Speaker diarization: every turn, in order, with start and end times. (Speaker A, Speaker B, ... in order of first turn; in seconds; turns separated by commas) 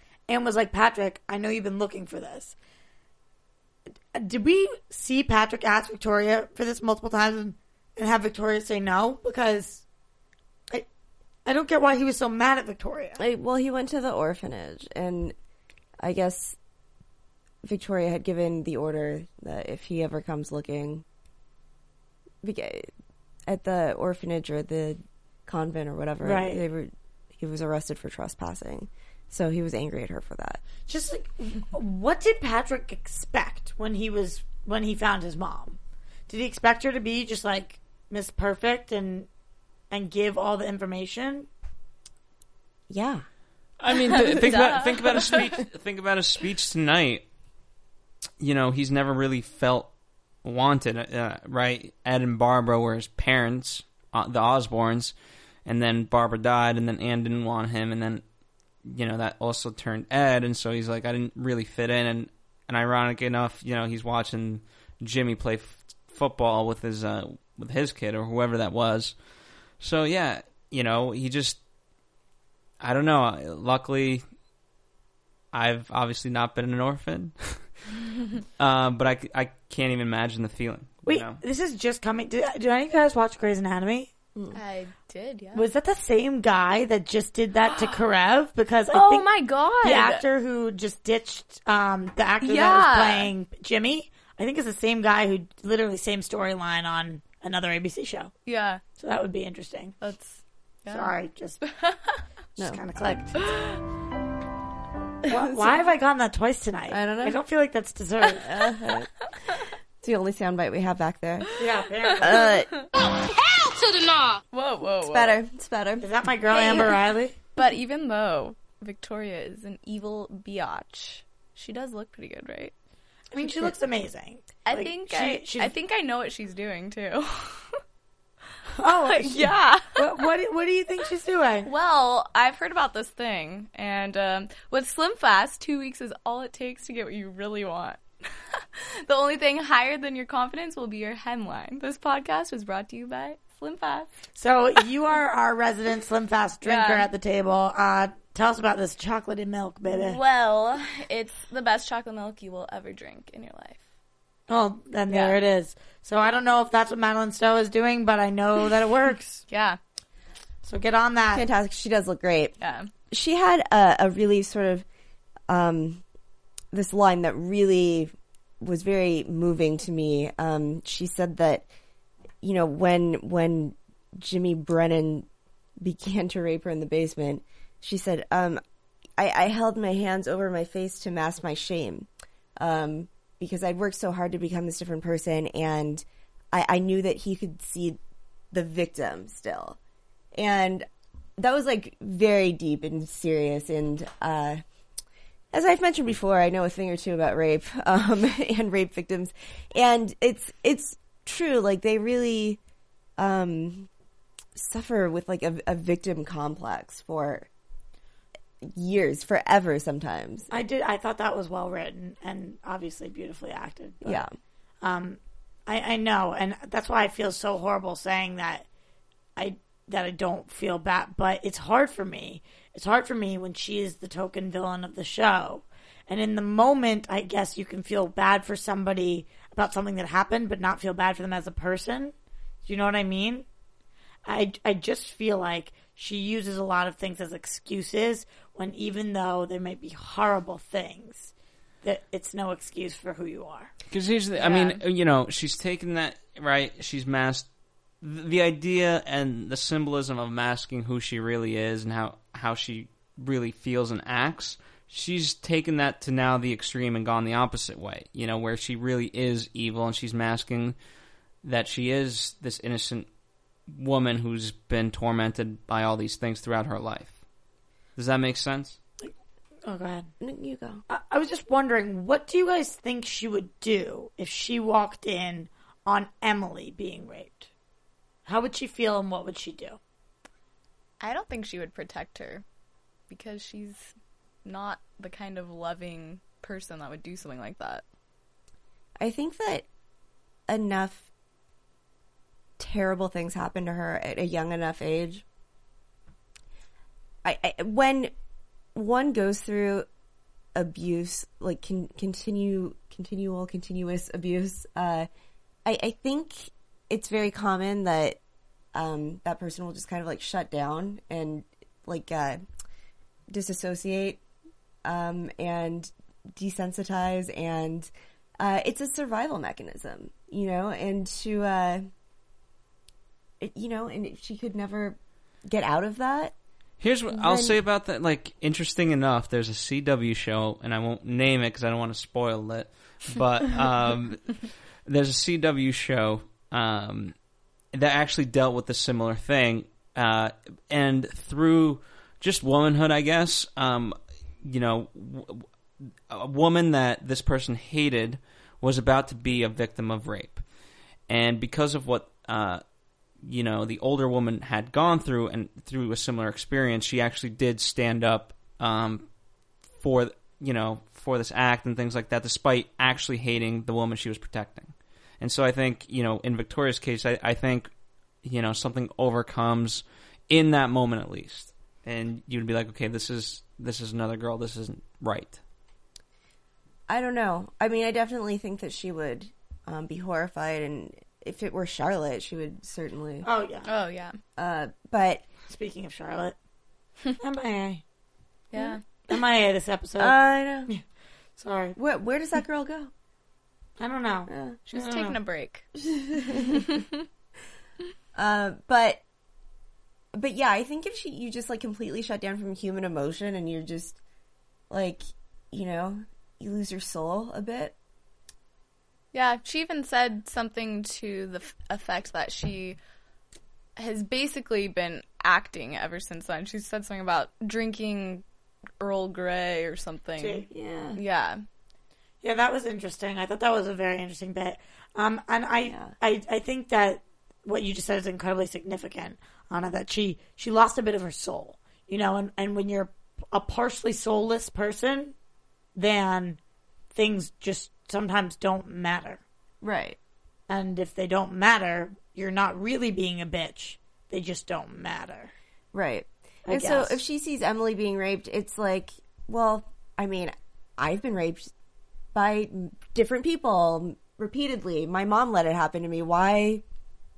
Speaker A: 0.3-2.5, Speaker A: 4.1-9.8, Speaker A: 11.4-13.2, Speaker B: 13.2-15.3, Speaker B: 16.0-16.6, Speaker B: 17.6-21.1, Speaker B: 22.4-22.9, Speaker B: 23.5-30.6, Speaker A: 26.2-26.6, Speaker A: 30.9-35.8, Speaker A: 36.3-39.3, Speaker A: 39.9-41.5, Speaker B: 42.9-43.2, Speaker C: 43.8-47.2, Speaker D: 44.3-45.5, Speaker C: 48.4-49.9, Speaker C: 50.4-55.1, Speaker C: 55.7-58.2, Speaker C: 58.9-69.2, Speaker C: 69.8-71.6, Speaker C: 72.8-74.2, Speaker C: 75.5-77.6, Speaker C: 78.6-81.4, Speaker A: 81.1-84.1, Speaker D: 84.5-85.7, Speaker A: 85.5-98.3, Speaker D: 87.7-88.0, Speaker D: 88.9-90.2, Speaker D: 92.4-93.3, Speaker D: 98.5-98.8, Speaker A: 99.0-100.0, Speaker D: 100.0-102.0, Speaker A: 100.9-101.6, Speaker A: 102.6-103.5, Speaker D: 103.4-103.8, Speaker A: 105.3-108.5, Speaker B: 106.9-107.4, Speaker B: 108.4-109.1, Speaker B: 110.0-111.5, Speaker A: 111.6-112.5, Speaker D: 112.1-112.9, Speaker B: 112.2-112.8, Speaker D: 114.3-115.4, Speaker B: 115.0-116.9, Speaker A: 116.0-117.3, Speaker D: 116.5-116.9, Speaker D: 117.6-122.7, Speaker A: 123.3-125.7, Speaker D: 124.7-127.8, Speaker A: 128.8-131.7, Speaker D: 129.0-130.0, Speaker D: 131.7-138.0, Speaker D: 138.6-144.1, Speaker A: 144.4-150.2, Speaker D: 146.6-147.1, Speaker D: 149.9-153.8, Speaker A: 154.5-159.4, Speaker D: 155.1-155.4, Speaker D: 159.5-159.8, Speaker A: 160.6-161.4, Speaker B: 161.3-162.6, Speaker D: 162.6-162.9, Speaker B: 163.1-164.8, Speaker B: 165.5-166.0, Speaker B: 166.7-171.7, Speaker B: 172.4-175.3, Speaker B: 175.8-178.6, Speaker B: 179.2-188.0, Speaker B: 188.5-189.8, Speaker B: 190.3-190.9, Speaker B: 191.4-194.6, Speaker B: 195.5-202.6, Speaker B: 203.2-203.9, Speaker B: 204.6-207.5, Speaker B: 208.6-210.5, Speaker A: 210.5-214.2, Speaker B: 214.0-214.3, Speaker A: 214.8-218.7, Speaker A: 219.4-232.1, Speaker A: 232.7-233.5, Speaker A: 234.3-241.3, Speaker A: 241.8-243.7, Speaker C: 243.9-247.5, Speaker D: 244.4-244.8, Speaker C: 248.0-260.8, Speaker C: 261.4-263.1, Speaker C: 263.7-267.1, Speaker C: 268.0-268.8, Speaker A: 269.6-270.1, Speaker B: 270.2-270.8, Speaker A: 270.9-277.5, Speaker A: 278.3-279.8, Speaker D: 281.0-282.4, Speaker D: 283.1-283.9, Speaker D: 284.4-287.8, Speaker B: 289.0-289.7, Speaker B: 290.5-291.1, Speaker B: 292.6-295.2, Speaker B: 297.2-298.1, Speaker B: 298.8-299.9, Speaker B: 300.6-305.1, Speaker B: 305.6-308.2, Speaker B: 308.7-312.4, Speaker B: 313.3-314.2, Speaker B: 314.9-321.9, Speaker B: 323.4-326.3, Speaker C: 326.8-337.1, Speaker B: 327.1-327.6, Speaker C: 337.7-345.5, Speaker C: 346.1-350.4, Speaker C: 351.1-352.6, Speaker C: 353.2-359.1, Speaker C: 359.8-367.7, Speaker C: 368.2-375.4, Speaker B: 376.9-383.3, Speaker A: 383.2-383.7, Speaker D: 383.7-384.1, Speaker B: 384.4-385.3, Speaker A: 385.5-386.4, Speaker A: 387.2-387.8, Speaker D: 388.5-388.8, Speaker A: 389.1-390.8, Speaker B: 390.0-390.7, Speaker A: 391.4-391.8, Speaker B: 391.8-392.9, Speaker A: 393.8-395.2, Speaker B: 394.3-394.6, Speaker D: 394.7-395.7, Speaker B: 395.8-396.8, Speaker D: 396.5-396.8, Speaker B: 398.1-399.0, Speaker B: 400.1-404.0, Speaker B: 404.7-407.7, Speaker D: 409.1-412.8, Speaker D: 413.8-418.2, Speaker D: 418.8-421.4, Speaker A: 420.2-420.5, Speaker B: 420.5-421.0, Speaker A: 422.2-435.1, Speaker B: 425.7-425.9, Speaker A: 435.8-436.4, Speaker A: 436.9-439.2, Speaker B: 439.6-440.0, Speaker A: 440.5-445.3, Speaker B: 445.7-451.5, Speaker A: 446.5-447.0, Speaker B: 452.1-456.6